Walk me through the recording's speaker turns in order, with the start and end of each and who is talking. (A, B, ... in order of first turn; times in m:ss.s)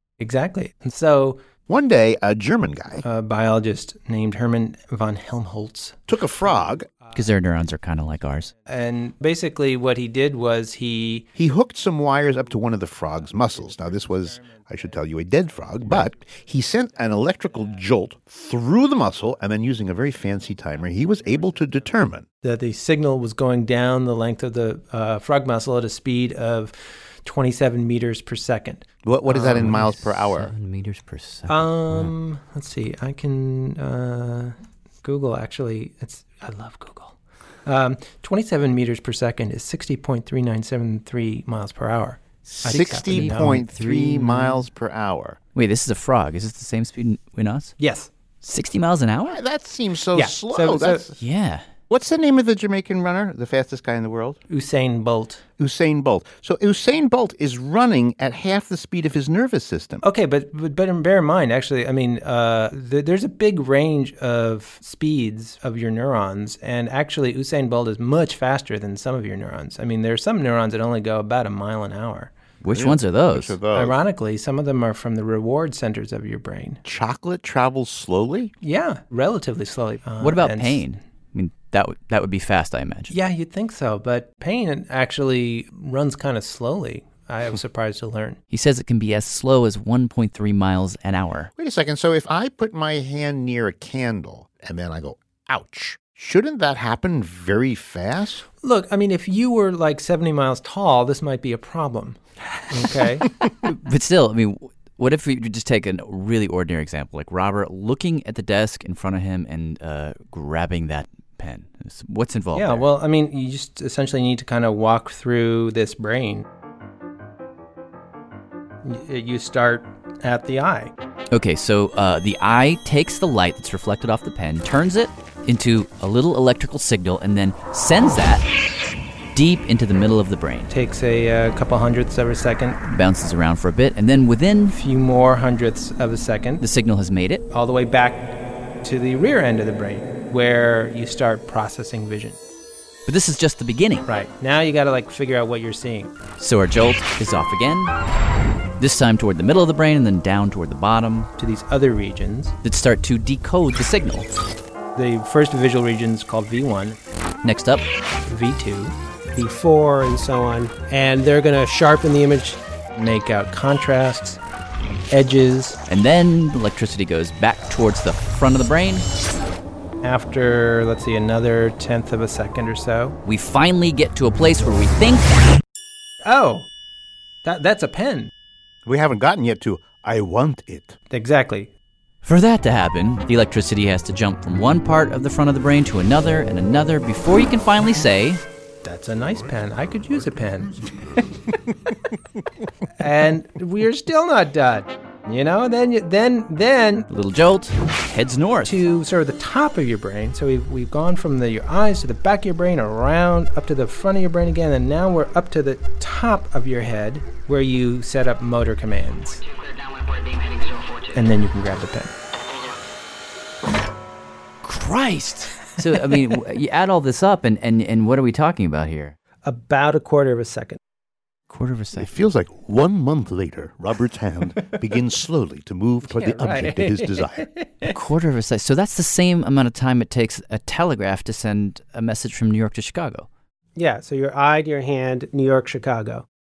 0:00.2-0:01.4 A
0:01.7-0:03.0 B
0:03.0-0:07.3 A
0:06.1-0:06.9 B
0:07.1-0:08.5 C
0:08.6-0:11.3 A
0:11.3-0:22.2 B
0:13.1-0:16.1 A
0:20.7-0:21.9 A
0:22.4-0:29.8 A
0:29.0-0:30.5 B
0:29.5-0:32.1 C
0:31.5-0:44.6 A
0:42.5-0:45.4 B
0:42.6-0:43.7 C
0:45.5-0:47.7 C
0:47.8-0:48.1 A
0:48.4-0:49.4 C
0:49.2-0:51.2 B
0:50.1-0:51.1 A
0:51.2-0:51.7 C
0:51.9-0:54.4 B
0:54.5-0:55.4 A
0:55.6-1:00.0 B
1:00.0-1:12.3 A
1:12.6-1:13.6 C
1:12.7-1:14.0 B
1:13.7-1:16.8 A
1:16.8-1:18.5 B
1:18.6-1:20.8 A
1:20.2-1:23.1 C
1:23.1-1:28.4 A
1:28.5-1:31.5 C
1:31.6-1:38.4 B
1:38.6-1:42.2 A
1:42.7-1:43.3 A
1:43.6-1:52.8 C
1:52.5-1:56.4 A
1:58.8-2:00.9 A
2:01.3-2:08.4 C
2:09.3-2:10.7 C
2:10.7-2:12.8 A
2:12.8-2:14.7 C
2:14.7-2:16.6 A
2:16.6-2:17.4 C
2:17.5-2:22.4 A
2:23.1-2:24.0 C
2:24.1-2:26.2 A
2:26.4-2:27.9 C
2:28.8-2:31.3 C
2:31.4-2:32.5 A
2:32.6-2:34.3 C
2:35.0-2:37.0 A
2:37.4-2:37.8 C
2:38.3-2:44.4 A
2:45.1-2:45.8 A
2:45.9-2:49.0 C
2:50.0-2:53.2 A
2:53.2-2:55.6 C
2:56.2-2:56.7 A
2:57.4-2:58.3 A
2:58.8-3:01.0 B
3:01.1-3:01.7 A
3:02.2-3:08.4 C
3:08.8-3:10.8 A
3:13.0-3:17.1 A
3:17.1-3:18.8 C
3:18.6-3:29.4 A
3:31.1-3:32.1 A
3:34.6-3:39.1 C
3:39.4-3:40.8 A
3:41.5-3:42.1 C
3:41.9-3:47.5 B
3:46.1-3:47.9 A
3:47.9-3:53.3 C
3:53.8-3:56.2 A